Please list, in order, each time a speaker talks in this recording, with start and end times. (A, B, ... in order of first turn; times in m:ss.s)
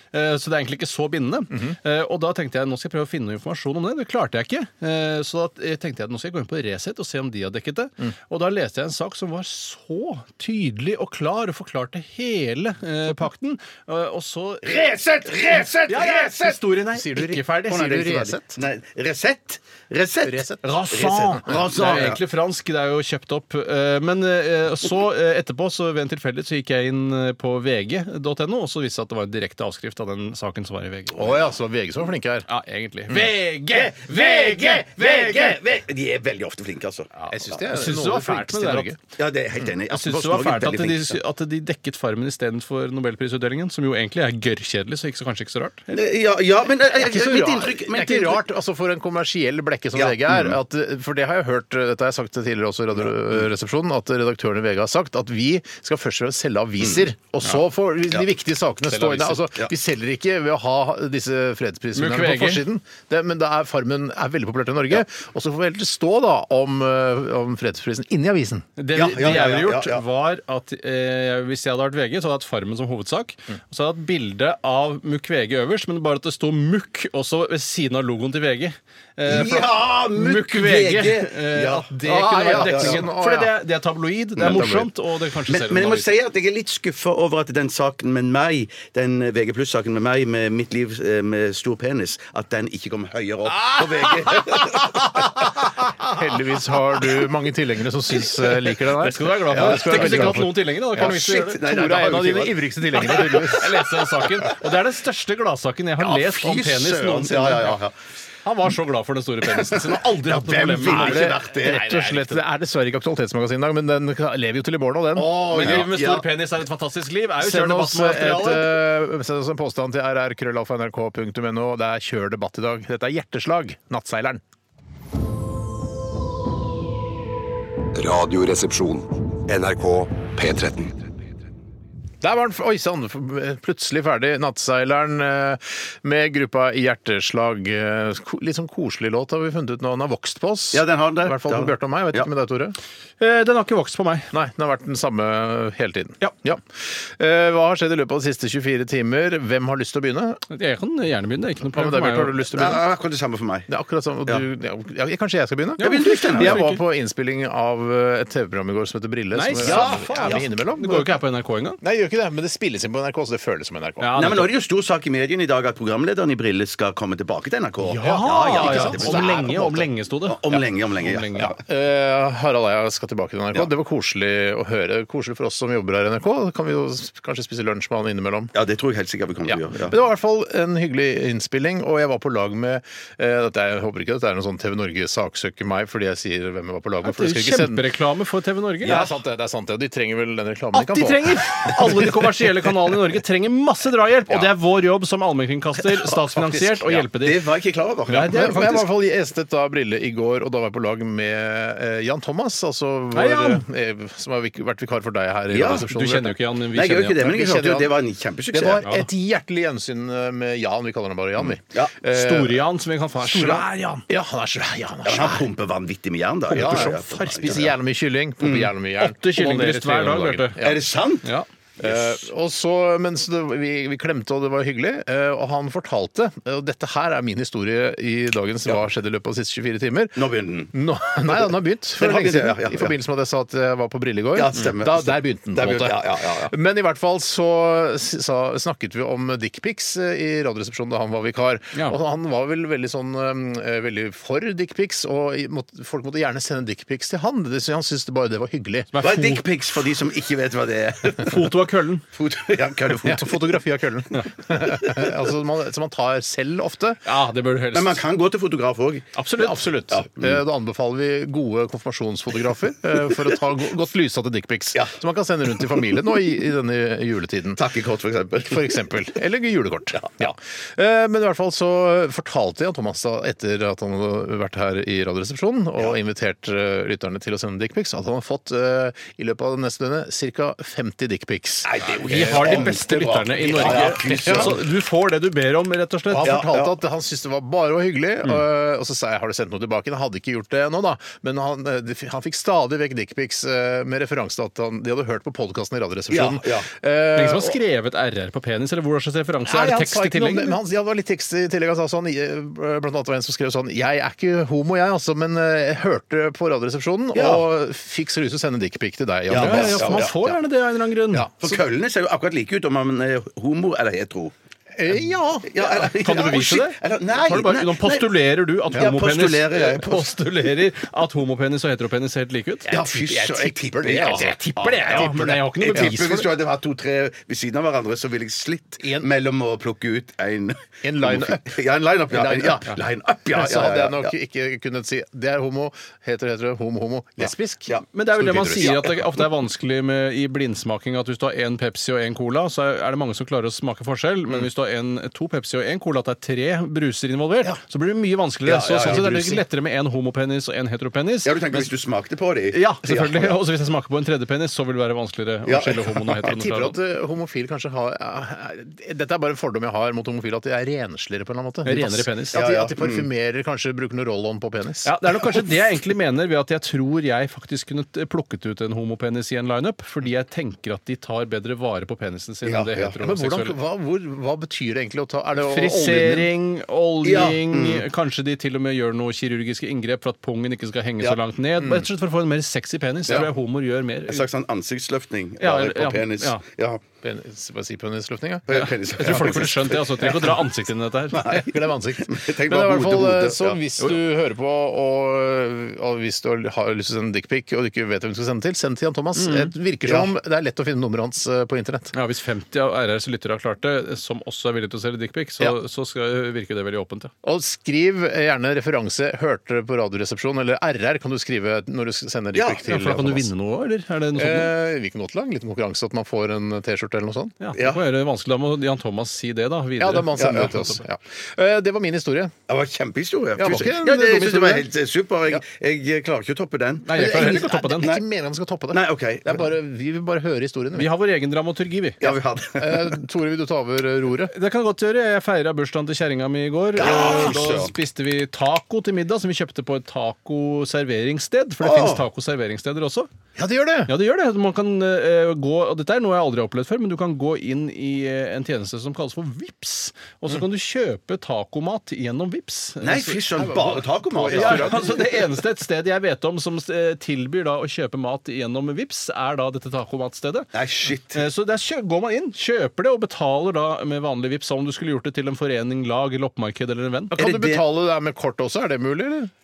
0:00.1-0:14.9 A
0:01.5-0:01.8 B
0:14.6-0:16.6 C
0:15.9-0:17.9 A
0:16.9-0:18.6 B
0:17.7-0:22.2 C
0:20.2-0:20.6 B
0:20.6-0:31.4 A
0:31.1-0:32.5 B
0:32.5-0:35.5 A
0:33.7-0:37.1 C
0:34.2-0:35.1 B
0:37.2-0:38.9 A
0:37.3-0:39.0 B
0:39.2-0:41.2 C
0:39.9-0:46.0 A
0:45.9-0:48.4 C
0:46.8-1:08.7 B
0:49.9-0:50.6 C
0:53.0-0:53.4 C
0:56.8-0:57.1 C
0:58.9-0:59.3 A
1:01.9-1:02.6 A
1:08.8-1:26.1 A
1:08.9-1:10.0 C
1:19.3-1:23.0 C
1:22.0-1:23.6 B
1:24.4-1:24.7 C
1:24.4-1:24.9 B
1:25.5-1:35.5 C
1:36.0-1:43.8 B
1:39.0-1:41.6 A
1:39.6-1:44.6 C
1:43.0-1:47.8 A
1:46.0-1:47.9 C
1:48.4-1:52.4 A
1:49.5-1:51.9 C
1:50.8-1:55.9 B
1:55.2-1:56.3 C
1:55.4-1:58.7 A
1:57.4-2:04.4 B
2:07.9-2:11.1 D
2:12.2-2:22.8 B
2:20.7-2:22.3 C
2:23.2-2:24.3 A
2:24.3-2:30.4 B
2:30.5-2:32.4 A
2:31.7-2:32.8 B
2:32.5-2:33.7 C
2:33.7-2:41.1 B
2:35.8-2:36.8 A
2:35.8-2:36.8 C
2:39.3-2:41.8 A
2:39.6-2:40.4 C
2:41.8-2:44.2 B
2:44.0-2:44.5 A
2:44.2-2:51.5 C
2:47.8-2:49.8 B
2:47.9-2:51.6 A
2:51.4-2:58.5 B
2:58.6-3:00.0 C
2:59.4-3:07.8 B
3:07.0-3:09.1 A
3:08.8-3:12.1 B
3:10.7-3:17.5 A
3:16.0-3:18.8 C
3:18.1-3:18.8 A
3:18.2-3:26.4 B
3:23.1-3:23.6 A
3:25.5-3:25.8 C
3:25.6-3:27.3 A
3:26.7-3:28.8 C
3:27.2-3:27.9 B
3:28.5-3:32.6 B
3:31.4-3:31.9 C
3:32.1-3:34.0 A
3:33.2-3:35.5 B
3:35.0-3:37.7 C
3:36.5-3:40.8 B
3:36.6-3:37.7 A
3:38.4-3:38.7 C
3:39.0-3:40.6 A
3:40.6-3:41.3 C
3:41.8-4:08.9 B
3:41.8-3:42.2 C
3:50.2-3:50.7 C
3:51.3-3:53.0 C
3:54.3-3:56.5 C
4:08.9-4:09.4 A
4:09.0-4:11.5 C
4:11.1-4:12.0 A
4:12.1-4:13.6 C
4:12.9-4:17.0 B
4:17.0-4:18.0 A
4:17.7-4:19.1 C
4:19.2-4:19.6 A
4:19.4-4:27.6 B
4:19.9-4:20.4 C
4:25.6-4:25.8 C
4:27.6-4:28.9 C
4:28.4-4:42.8 B
4:30.0-4:30.3 C
4:41.6-4:44.6 C
4:42.0-4:46.4 A
4:43.5-4:44.6 B
4:46.1-4:57.6 B
4:46.2-4:46.8 C
4:56.1-4:56.7 C
4:57.2-5:00.6 A
4:59.5-5:10.4 B
5:07.1-5:07.4 C
5:09.3-5:10.1 C
5:09.3-5:11.3 A
5:11.1-5:11.5 B
5:11.4-5:14.3 C
5:14.8-5:15.5 B
5:15.4-5:18.1 C
5:15.7-5:22.7 A
5:18.7-5:20.3 C
5:22.6-5:26.0 B
5:22.7-5:34.1 C
5:24.1-5:26.3 A
5:28.8-5:29.1 B
5:30.8-5:31.5 B
5:32.1-5:32.8 B
5:33.3-5:38.8 B
5:37.2-5:37.8 C
5:37.9-5:51.7 A
5:38.6-5:39.1 C
5:48.4-5:49.4 C
5:51.2-5:53.4 C
5:52.5-5:56.8 A
5:55.4-5:56.2 C
5:56.2-6:04.9 B
6:01.6-6:02.4 A
6:02.3-6:03.1 C
6:04.8-6:13.6 A
6:12.4-6:12.9 C
6:13.0-6:16.3 B
6:15.4-6:24.3 A
6:17.0-6:17.8 C
6:21.6-6:21.9 B
6:24.1-6:26.8 C
6:25.4-6:26.4 A
6:27.0-6:30.3 B
6:28.5-6:30.4 C
6:29.0-6:31.4 A
6:31.1-6:33.6 C
6:31.1-6:41.9 B
6:39.2-6:39.5 A
6:39.8-6:40.1 C
6:41.9-6:47.1 A
6:47.2-6:53.3 B
6:52.3-6:52.7 C
6:52.7-6:54.5 A
6:54.2-6:57.4 B
6:57.4-7:00.8 A
6:57.6-6:57.8 C
6:59.8-7:02.3 B
7:00.2-7:00.5 C
7:02.5-7:08.0 C
7:03.4-7:04.7 B
7:06.8-7:08.0 A
7:06.9-7:10.9 B
7:08.7-7:09.5 C
7:10.7-7:12.0 A
7:12.0-7:13.0 C
7:12.6-7:14.3 B
7:14.3-7:23.1 A
7:16.8-7:17.7 C
7:21.6-7:22.0 C
7:23.4-7:23.9 B
7:23.9-7:33.3 A
7:32.8-7:35.2 C
7:33.3-7:35.0 B
7:34.3-7:40.5 A
7:40.5-7:41.2 C
7:41.1-7:47.2 A
7:47.1-7:49.3 B
7:47.2-7:47.6 C